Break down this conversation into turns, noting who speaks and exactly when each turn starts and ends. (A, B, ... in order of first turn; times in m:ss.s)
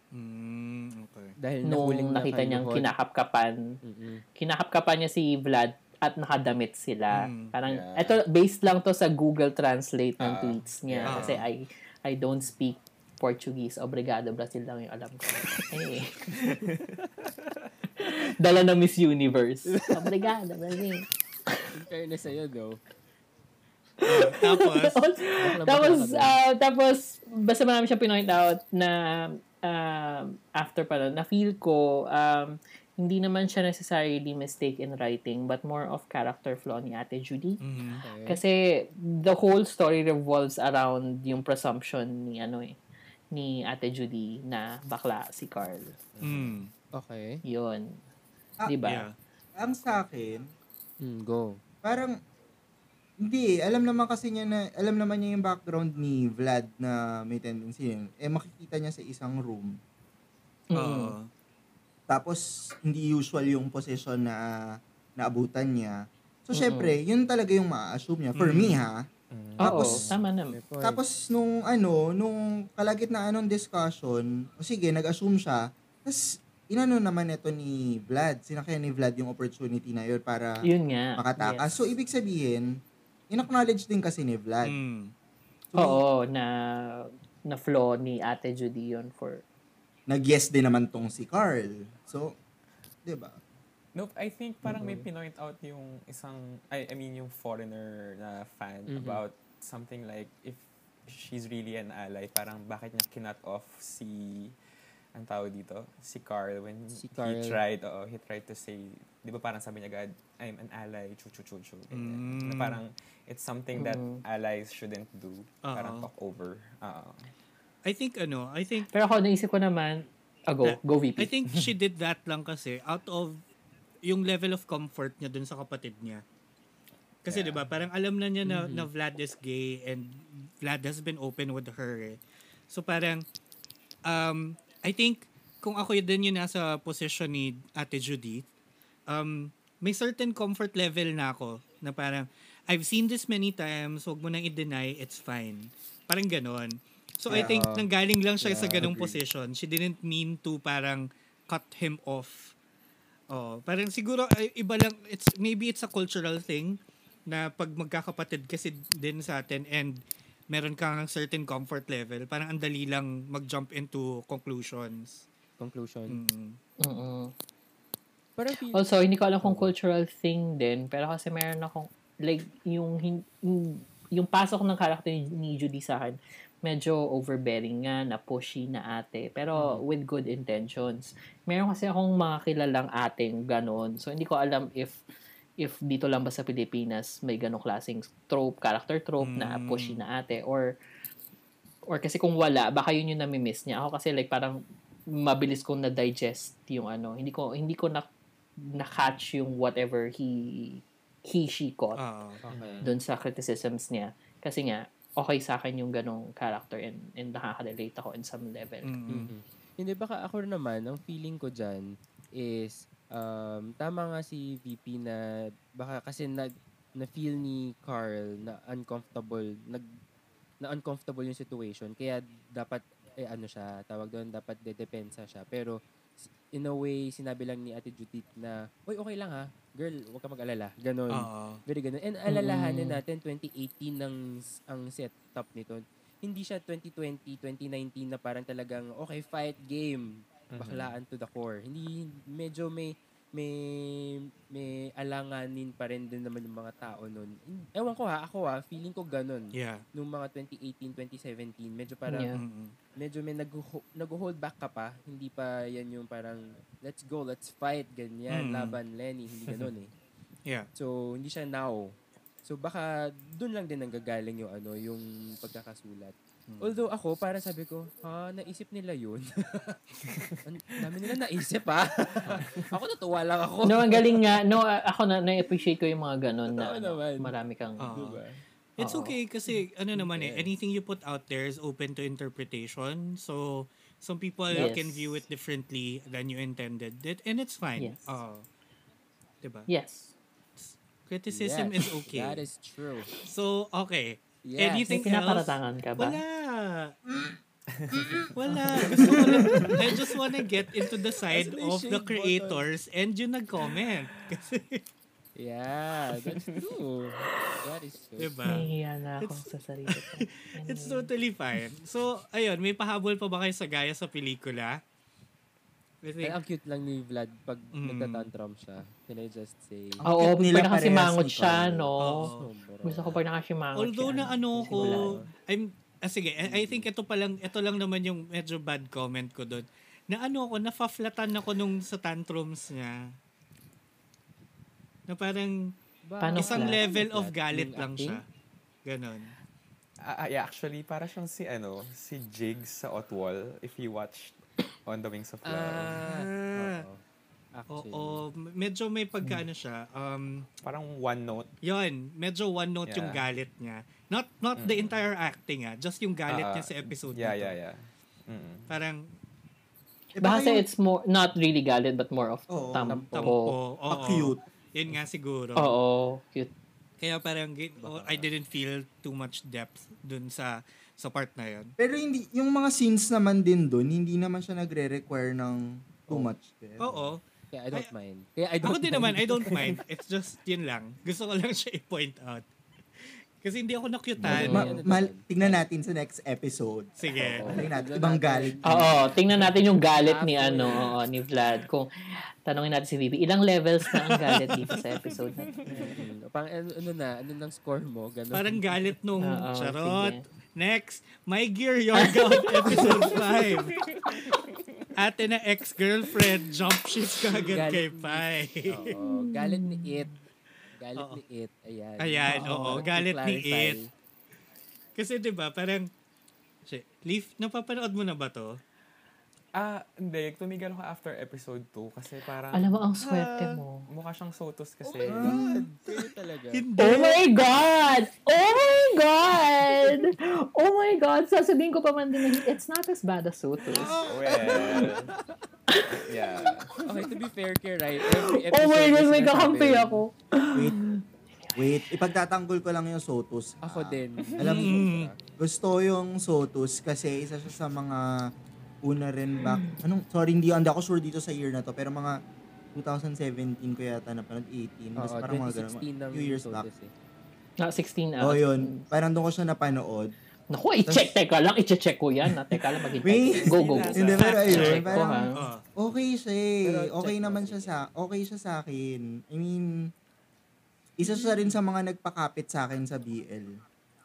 0:00.1-0:01.4 A
0:01.4-0:02.9 B
0:01.6-0:03.6 C
0:03.8-0:04.2 B
0:04.4-0:16.6 C
0:07.1-0:07.5 A
0:07.7-0:08.2 D
0:10.2-0:11.4 D
0:11.1-0:11.4 A
0:16.4-0:17.7 D
0:18.0-0:21.7 C
0:19.7-0:20.1 B
0:21.8-0:22.8 B
0:24.0-0:37.6 C
0:24.0-0:25.0 A
0:25.4-0:26.4 B
0:37.6-0:38.0 A
0:37.9-0:38.4 B
0:38.3-0:42.8 C
0:43.3-0:46.0 C
0:46.2-0:46.6 D
0:46.2-0:46.7 A
0:47.0-0:47.4 B
0:47.5-0:48.0 C
0:48.7-0:49.1 C
0:48.9-0:49.1 A
0:49.6-0:50.5 E
0:51.0-0:51.6 B
0:51.8-0:52.2 E
0:53.2-0:59.8 E
1:00.7-1:01.2 C
1:00.8-1:01.3 A
1:02.1-1:04.5 E
1:05.2-1:09.1 E
1:06.5-1:07.0 C
1:08.4-1:08.9 A
1:09.3-1:10.2 D
1:09.6-1:10.1 E
1:09.6-1:10.6 C
1:10.5-1:11.0 B
1:10.8-1:20.6 E
1:20.6-1:21.6 C
1:21.2-1:22.7 E
1:23.3-1:24.8 E
1:24.6-1:25.1 A
1:25.7-1:26.0 E
1:25.8-1:29.4 C
1:30.1-1:32.4 E
1:33.1-1:33.4 E
1:34.0-1:44.6 D
1:34.7-1:35.0 B
1:38.9-1:39.2 B
1:45.2-1:57.3 D
1:47.0-1:47.6 B
1:51.9-1:52.8 A
1:53.8-1:54.2 C
1:55.6-1:56.1 A
1:57.9-1:58.9 A
1:58.9-2:01.3 C
2:00.6-2:03.4 A
2:04.0-2:06.2 A
2:07.2-2:12.2 A
2:07.3-2:07.6 D
2:08.4-2:08.9 B
2:12.7-2:13.2 A
2:14.1-2:18.5 A
2:19.1-2:32.5 A
2:27.3-2:27.6 E
2:27.3-2:27.9 B
2:28.4-2:29.0 B
2:28.8-2:29.1 E
2:33.3-2:36.8 A
2:37.3-2:45.2 A
2:45.6-2:46.2 B
2:46.1-2:46.6 A
2:46.8-2:47.3 C
2:48.4-2:48.9 B
2:48.7-3:05.0 C
2:49.4-2:49.7 B
2:59.6-2:59.8 B
3:05.6-3:10.7 C
3:09.2-3:10.0 A
3:11.9-3:14.6 C
3:15.1-3:18.1 C
3:18.8-3:22.0 C
3:22.0-3:22.4 A
3:22.4-3:22.9 B
3:22.5-3:22.9 D
3:22.8-3:29.0 C
3:28.8-3:29.3 A
3:29.1-3:35.2 B
3:35.8-3:39.9 B
3:40.6-3:45.8 B
3:46.5-4:00.1 B
3:51.1-3:51.6 A
3:52.3-3:53.0 C
4:00.5-4:01.0 D
4:00.6-4:12.3 B
4:09.5-4:09.8 A
4:12.1-4:12.4 C
4:12.3-4:12.8 A
4:13.0-4:19.9 B
4:18.3-4:18.8 A
4:20.8-4:21.9 B
4:22.4-4:29.8 B
4:26.5-4:26.8 A
4:30.4-4:34.4 B
4:33.6-4:38.0 C
4:36.5-4:37.4 B
4:37.8-4:38.2 A
4:37.9-4:38.4 B
4:38.8-4:48.4 A
4:38.8-4:39.2 C
4:40.0-4:40.5 B
4:44.5-4:45.2 C
4:47.8-4:48.2 C
4:49.4-4:49.7 A
4:49.7-4:50.1 C
4:50.6-4:52.4 A
4:51.3-4:53.1 B
4:53.2-4:56.9 A
4:54.4-4:55.0 B
4:54.9-4:56.2 C
4:57.7-4:58.3 D
4:58.4-5:04.8 A
4:58.5-4:58.9 C
4:59.0-4:59.5 E
5:01.3-5:02.6 B
5:05.4-5:08.7 B
5:06.3-5:06.6 D
5:08.2-5:08.7 A
5:08.4-5:11.1 C
5:09.2-5:14.8 A
5:16.0-5:16.4 A
5:16.2-5:20.0 B
5:17.7-5:18.3 A
5:20.0-5:22.3 C
5:20.1-5:21.9 E
5:22.0-5:22.5 A
5:22.4-5:23.2 B
5:22.8-5:25.2 C
5:23.8-5:33.1 A
5:24.6-5:25.3 B
5:26.4-5:26.9 B
5:35.1-5:35.7 A
5:36.1-5:38.2 B
5:36.2-5:36.8 C
5:36.3-5:38.2 A
5:38.9-5:39.3 A
5:40.0-5:46.0 D
5:45.5-5:47.0 B
5:46.0-5:46.8 A
5:47.6-5:48.2 B
5:47.7-5:50.5 A
5:50.6-5:51.5 D
5:51.6-5:57.6 A
5:52.8-5:53.3 D
5:54.6-5:55.0 D
5:56.3-5:58.8 D
5:58.7-5:59.1 A
6:00.2-6:00.7 E
6:00.2-6:03.6 C
6:02.5-6:03.1 E
6:02.9-6:03.2 B
6:03.1-6:05.8 A
6:03.9-6:04.4 E
6:05.6-6:06.5 C
6:07.0-6:11.7 A
6:07.8-6:08.3 B
6:11.8-6:17.1 E
6:16.8-6:17.2 A
6:17.5-6:19.8 B
6:18.6-6:22.4 A
6:23.1-6:24.8 A
6:24.2-6:29.0 E
6:24.2-6:25.6 B
6:24.3-6:24.8 C
6:27.0-6:27.4 A
6:27.2-6:28.9 B
6:28.7-6:31.9 C
6:29.9-6:31.0 B
6:32.5-6:35.6 C
6:34.7-6:36.0 D
6:35.7-6:38.6 B
6:38.3-6:43.8 A
6:39.2-6:40.2 C
6:42.0-6:43.2 C
6:43.1-6:44.9 D
6:44.0-6:44.4 C
6:45.0-6:48.9 A
6:47.3-6:50.2 B
6:48.9-6:50.1 C
6:50.8-6:53.9 B
6:52.0-6:53.8 A
6:52.3-6:52.9 C
6:55.0-6:55.9 A
6:56.7-6:58.6 A
6:59.5-7:05.4 D
7:02.5-7:03.9 C
7:04.8-7:06.6 B
7:05.0-7:05.7 E
7:06.5-7:07.2 A
7:06.8-7:14.0 C
7:13.9-7:15.0 B
7:14.0-7:15.1 D
7:15.7-7:16.0 C
7:15.9-7:16.8 D
7:16.8-7:20.0 B
7:18.4-7:21.6 C
7:21.6-7:24.9 E
7:23.6-7:25.2 B
7:24.4-7:25.1 A
7:25.4-7:28.2 E
7:28.8-7:32.2 E
7:29.4-7:29.8 C
7:32.8-7:36.7 E
7:35.0-7:36.9 B
7:37.6-7:38.8 C
7:38.2-7:40.1 E
7:40.5-7:45.5 C
7:40.8-7:41.2 E
7:42.5-7:49.8 E
7:43.5-7:45.6 A
7:43.6-7:45.2 B
7:46.6-7:47.8 B
7:51.0-7:53.5 E